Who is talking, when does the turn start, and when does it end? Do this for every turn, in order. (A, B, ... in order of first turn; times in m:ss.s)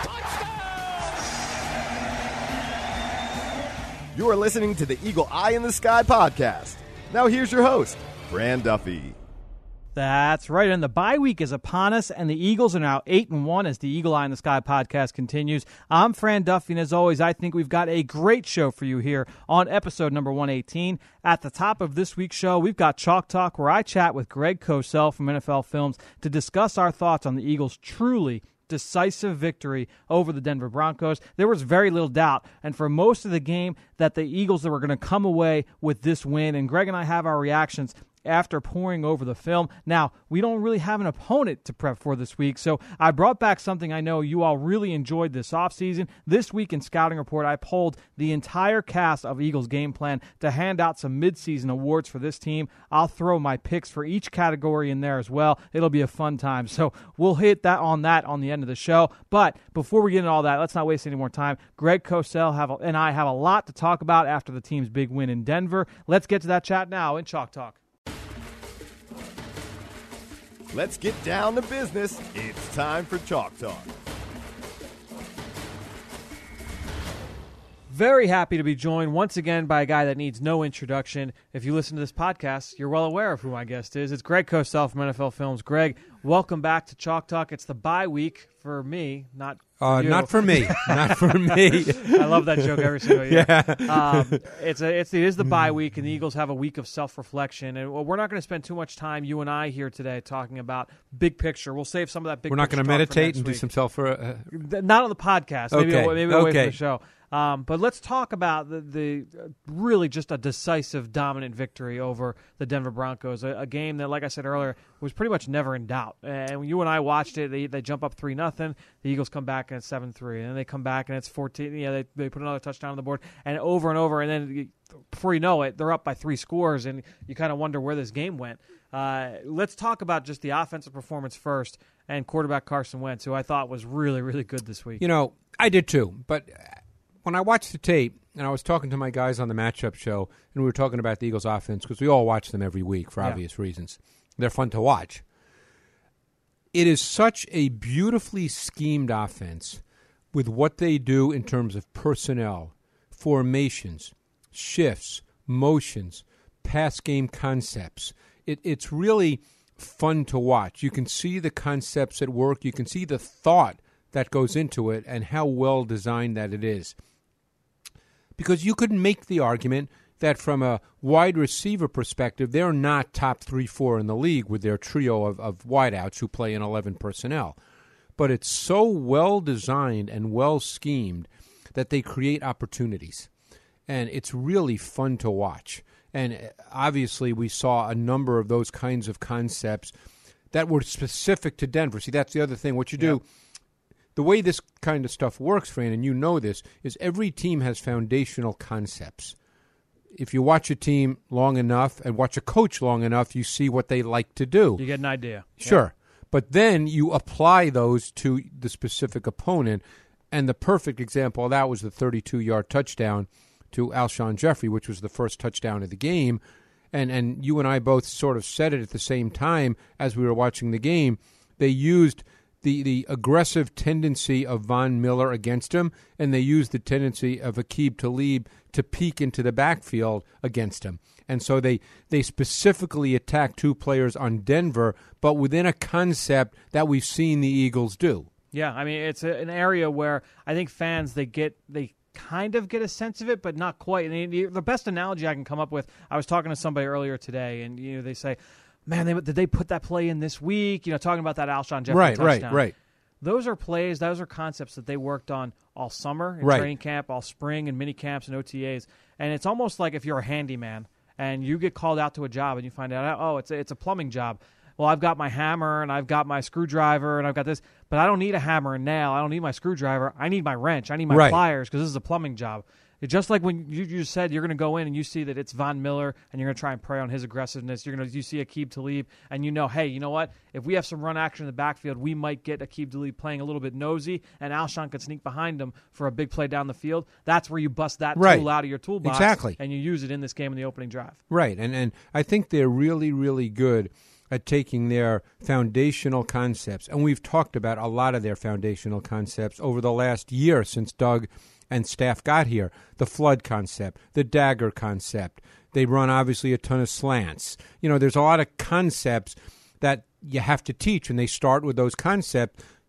0:00.4-0:00.7 A
0:04.1-0:09.2 B
0:10.0-1:07.8 A
1:10.7-1:13.9 B
1:17.9-1:43.6 A
1:29.8-1:34.4 C
1:35.4-1:35.7 C
1:42.5-1:44.5 C
1:44.5-2:15.0 A
1:45.7-1:46.8 C
2:15.0-2:25.2 C
2:26.7-2:29.8 C
2:30.3-2:47.0 C
2:48.4-2:57.6 C
2:58.2-3:03.3 C
3:03.9-3:09.9 C
3:10.5-3:13.2 C
3:14.2-3:19.4 C
3:20.1-3:24.8 C
3:24.8-3:25.8 A
3:25.6-3:36.4 C
3:36.9-3:58.3 C
3:58.5-4:12.7 A
4:11.9-4:12.7 C
4:13.2-4:51.2 A
4:16.4-4:16.7 C
4:31.1-4:31.4 C
4:48.2-4:48.5 C
4:49.0-4:49.6 C
4:51.3-5:12.6 C